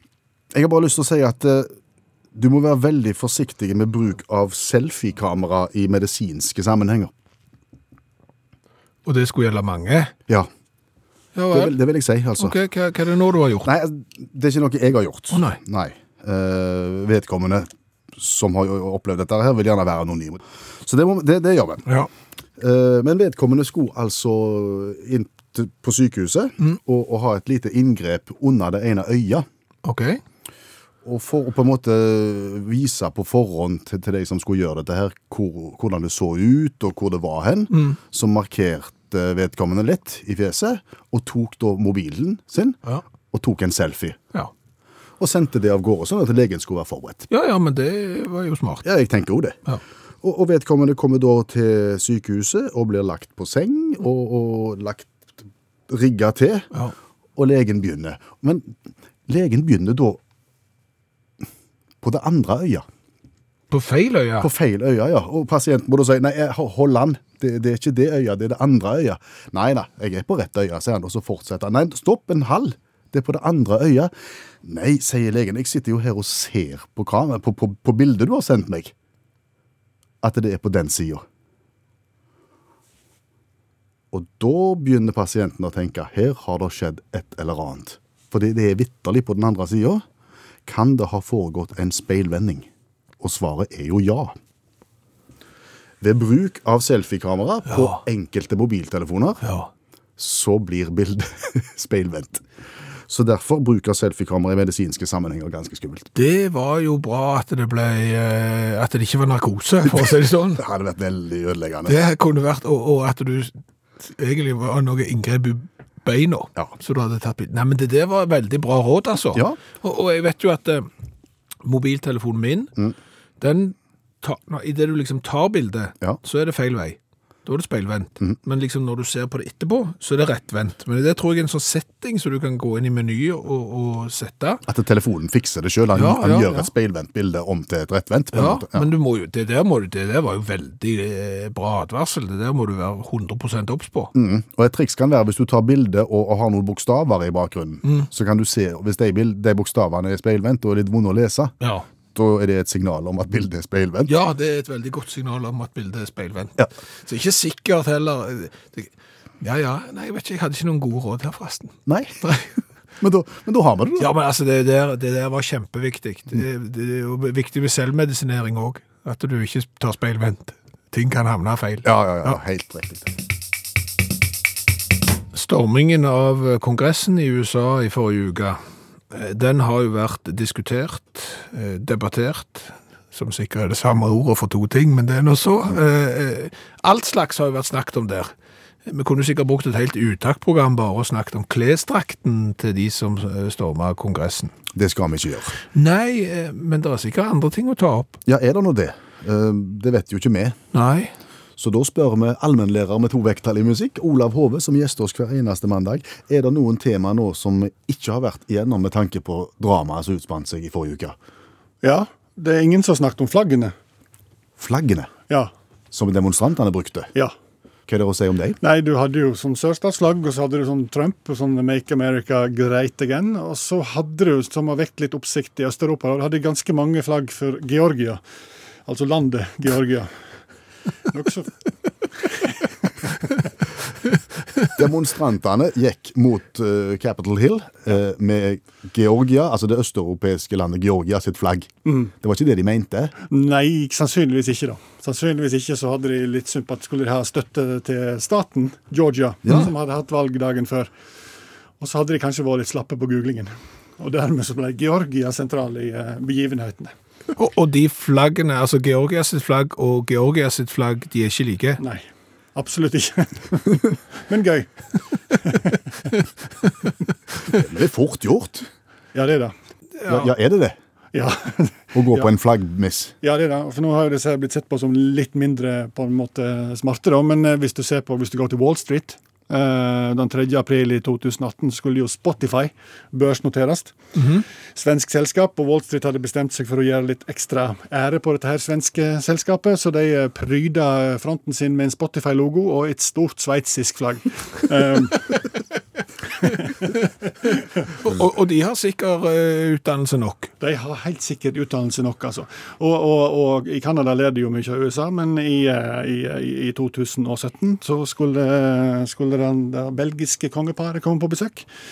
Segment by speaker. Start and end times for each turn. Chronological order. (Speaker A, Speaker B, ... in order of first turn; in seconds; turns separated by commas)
Speaker A: 0.5-1.7, Speaker A: 2.3-7.1, Speaker B: 9.1-10.1, Speaker B: 11.3-11.8, Speaker A: 11.5-12.6, Speaker B: 12.4-13.7, Speaker A: 13.6-21.9, Speaker B: 15.3-15.6, Speaker A: 22.6-29.4, Speaker B: 29.8-30.2, Speaker A: 31.0-42.8, Speaker B: 37.7-38.0, Speaker A: 43.3-44.2, Speaker A: 45.2-47.3, Speaker B: 47.3-48.8, Speaker A: 48.8-49.6, Speaker A: 50.2-55.1, Speaker A: 55.9-56.7, Speaker A: 57.4-58.7, Speaker A: 59.3-60.2, Speaker A: 62.0-62.8, Speaker B: 63.7-64.5, Speaker A: 64.4-74.1, Speaker A: 74.6-78.9, Speaker A: 80.2-81.2, Speaker A: 84.1-90.0, Speaker A: 90.7-92.7, Speaker A: 93.2-94.3, Speaker A: 96.0-99.4, Speaker B: 97.7-98.0, Speaker B: 99.4-99.7, Speaker A: 100.2-102.4, Speaker A: 103.1-106.1, Speaker B: 106.1-110.6, Speaker A: 109.9-112.0, Speaker B: 111.9-120.9, Speaker B: 121.6-122.7, Speaker B: 123.4-134.6, Speaker A: 134.7-138.9, Speaker B: 135.9-136.7, Speaker B: 138.3-144.1, Speaker A: 144.1-151.5, Speaker B: 151.6-151.8, Speaker A: 152.1-154.1, Speaker B: 154.1-158.9, Speaker B: 159.4-162.5, Speaker A: 161.8-162.2, Speaker A: 163.0-164.1, Speaker B: 164.0-172.4, Speaker A: 171.8-173.1, Speaker B: 175.3-178.6, Speaker B: 179.1-188.3, Speaker B: 188.8-194.5, Speaker A: 194.7-195.6, Speaker B: 195.7-198.2, Speaker A: 198.2-200.6, Speaker B: 200.7-201.1, Speaker A: 201.6-211.2, Speaker C: 211.8-213.7, Speaker A: 214.6-215.1, Speaker A: 215.9-217.1, Speaker A: 217.9-218.6, Speaker C: 218.6-228.2, Speaker C: 228.8-230.1, Speaker C: 231.1-231.6, Speaker C: 232.3-233.1, Speaker A: 234.7-243.1, Speaker C: 243.3-250.9, Speaker A: 249.4-249.7, Speaker C: 251.8-256.9, Speaker B: 257.3-261.8, Speaker C: 261.8-264.7, Speaker C: 265.3-266.1, Speaker A: 267.5-268.7, Speaker C: 269.1-269.5, Speaker B: 270.0-270.3, Speaker A: 270.1-270.8, Speaker C: 271.1-272.3, Speaker A: 271.9-273.1, Speaker C: 273.2-283.9, Speaker B: 284.1-284.4, Speaker C: 284.7-295.4, Speaker C: 296.4-296.7, Speaker B: 297.4-300.5, Speaker C: 300.6-311.7